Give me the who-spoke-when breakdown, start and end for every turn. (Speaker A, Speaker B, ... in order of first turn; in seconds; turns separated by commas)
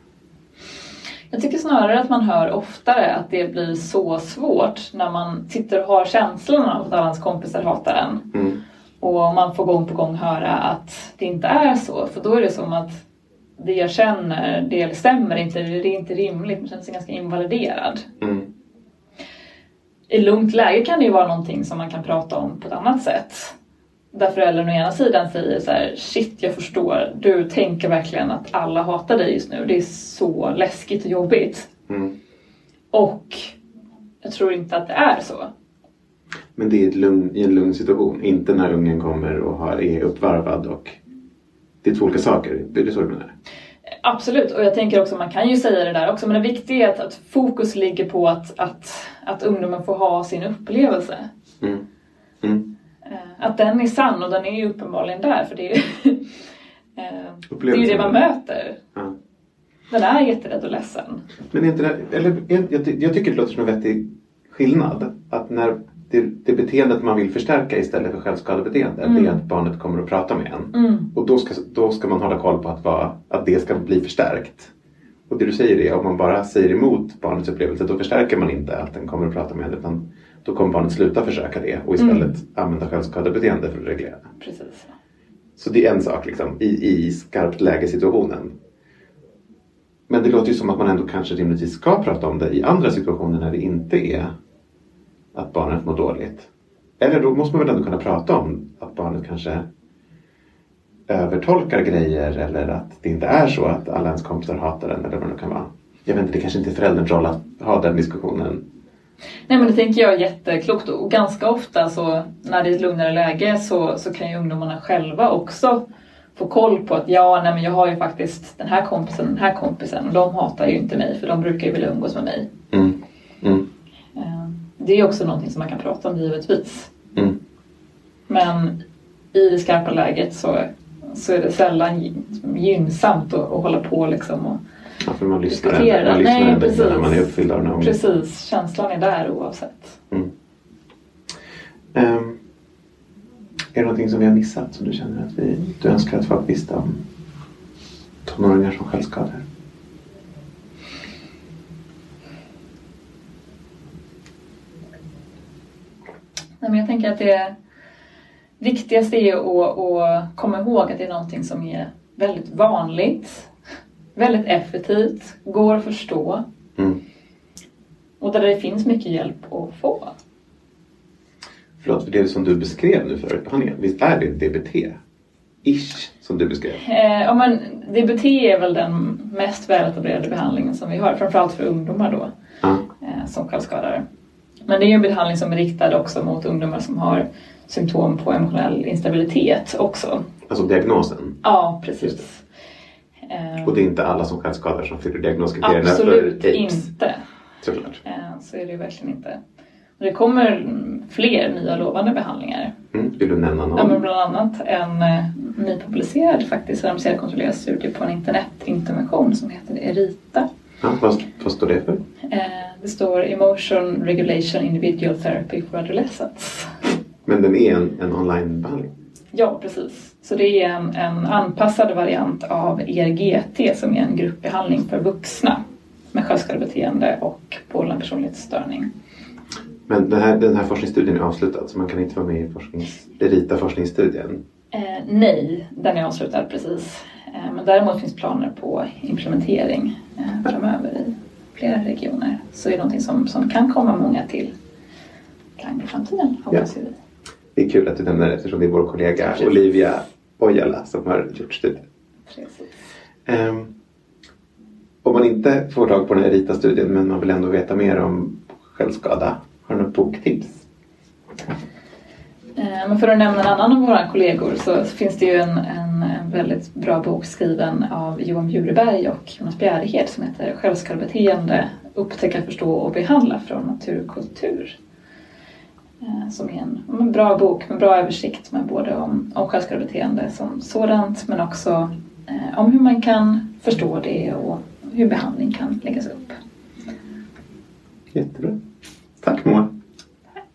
Speaker A: 1.3-8.2, Speaker B: 8.3-8.6, Speaker A: 9.0-13.0, Speaker A: 13.6-18.0, Speaker B: 18.2-18.5, Speaker A: 20.1-23.5, Speaker A: 24.1-31.7, Speaker B: 31.9-32.1, Speaker A: 32.9-33.5, Speaker A: 34.2-35.5, Speaker B: 36.5-41.0, Speaker B: 41.8-43.3, Speaker A: 44.0-51.3, Speaker B: 52.4-52.7, Speaker A: 53.0-56.3, Speaker A: 57.0-58.8, Speaker B: 57.5-58.2, Speaker A: 59.9-61.2, Speaker B: 61.5-74.7, Speaker A: 69.0-69.4, Speaker A: 70.7-71.1, Speaker B: 75.3-84.3, Speaker A: 82.0-82.3, Speaker A: 84.4-84.9, Speaker B: 85.6-88.5, Speaker B: 90.1-94.3, Speaker B: 95.3-96.5, Speaker B: 97.0-99.7, Speaker B: 101.1-108.6, Speaker A: 109.5-115.8, Speaker A: 116.3-122.5, Speaker B: 122.7-123.7, Speaker A: 124.1-126.9, Speaker A: 128.3-128.8, Speaker A: 129.3-134.6, Speaker B: 135.0-138.0, Speaker A: 135.5-140.0, Speaker B: 141.9-142.4, Speaker B: 143.7-147.0, Speaker B: 148.2-149.4, Speaker A: 156.6-157.5, Speaker A: 158.6-163.5, Speaker A: 164.2-166.4, Speaker A: 168.2-170.1, Speaker B: 171.8-175.0, Speaker B: 175.6-176.8, Speaker A: 176.8-182.3, Speaker A: 183.0-184.0, Speaker A: 184.7-190.2, Speaker B: 190.5-191.4, Speaker A: 191.4-192.4, Speaker A: 193.2-193.8, Speaker B: 193.6-196.9, Speaker A: 195.6-197.2, Speaker B: 197.6-198.0, Speaker A: 198.0-199.4, Speaker A: 200.0-202.7, Speaker B: 202.9-204.0, Speaker A: 203.7-210.5, Speaker B: 210.8-212.0, Speaker A: 212.3-216.7, Speaker B: 217.2-218.9, Speaker A: 219.3-225.6, Speaker A: 226.1-228.9, Speaker B: 229.9-234.4, Speaker A: 234.7-244.5, Speaker A: 245.6-246.9, Speaker B: 247.5-251.8, Speaker A: 252.3-252.8, Speaker B: 253.2-253.7, Speaker B: 255.0-260.6, Speaker A: 262.6-274.8, Speaker A: 276.0-286.4, Speaker B: 288.1-288.6, Speaker B: 289.2-289.7